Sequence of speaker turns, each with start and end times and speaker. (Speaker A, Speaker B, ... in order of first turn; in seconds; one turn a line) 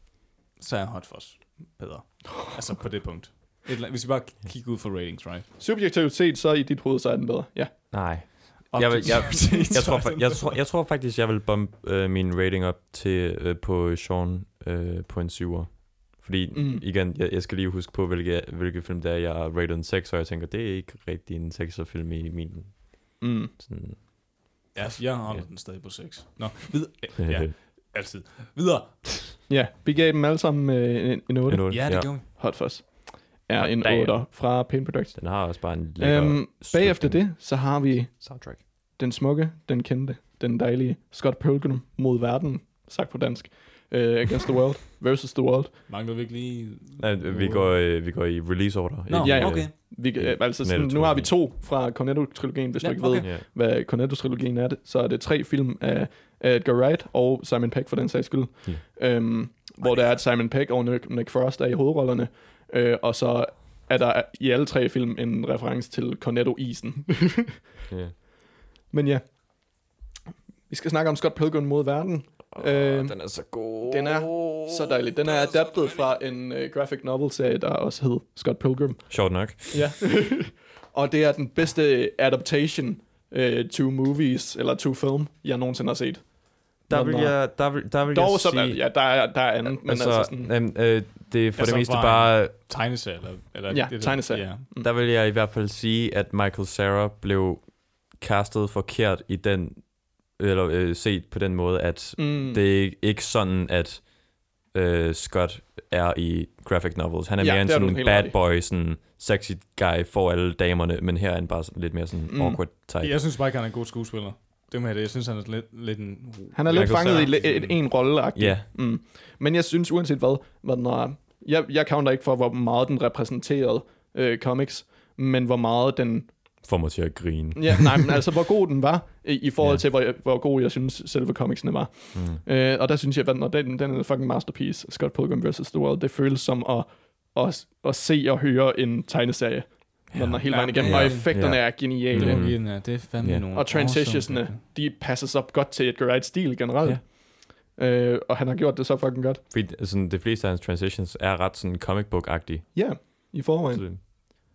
Speaker A: 0.6-5.5
Speaker B: 5.6-8.0
Speaker C: 7.9-24.0
Speaker A: 8.7-10.6
Speaker B: 16.5-16.8
Speaker B: 23.2-23.5
Speaker A: 24.7-29.4
Speaker C: 27.2-27.5
Speaker B: 29.5-45.8
Speaker C: 31.5-32.2
Speaker A: 31.7-32.2
Speaker C: 33.5-34.3
Speaker C: 35.1-38.6
Speaker A: 45.9-47.7
Speaker C: 47.0-51.3
Speaker A: 49.1-49.7
Speaker B: 49.2-67.6
Speaker A: 52.8-53.3
Speaker C: 67.9-68.2
Speaker B: 68.9-69.2
Speaker B: 70.7-90.5
Speaker C: 72.5-75.1
Speaker C: 79.1-79.8
Speaker C: 86.9-89.0
Speaker C: 89.6-92.5
Speaker A: 91.5-94.6
Speaker B: 93.7-94.9
Speaker C: 94.7-113.2
Speaker B: 102.2-102.6
Speaker B: 107.4-108.3
Speaker B: 112.3-112.6
Speaker A: 113.0-117.8
Speaker B: 116.5-126.3
Speaker C: 116.7-117.5
Speaker C: 118.3-118.7
Speaker C: 126.6-128.2
Speaker B: 127.5-142.6
Speaker C: 129.6-129.8
Speaker C: 132.1-132.4
Speaker C: 140.1-143.4
Speaker A: 140.4-144.6
Speaker B: 143.5-149.4
Speaker C: 149.5-154.2
Speaker B: 152.7-154.1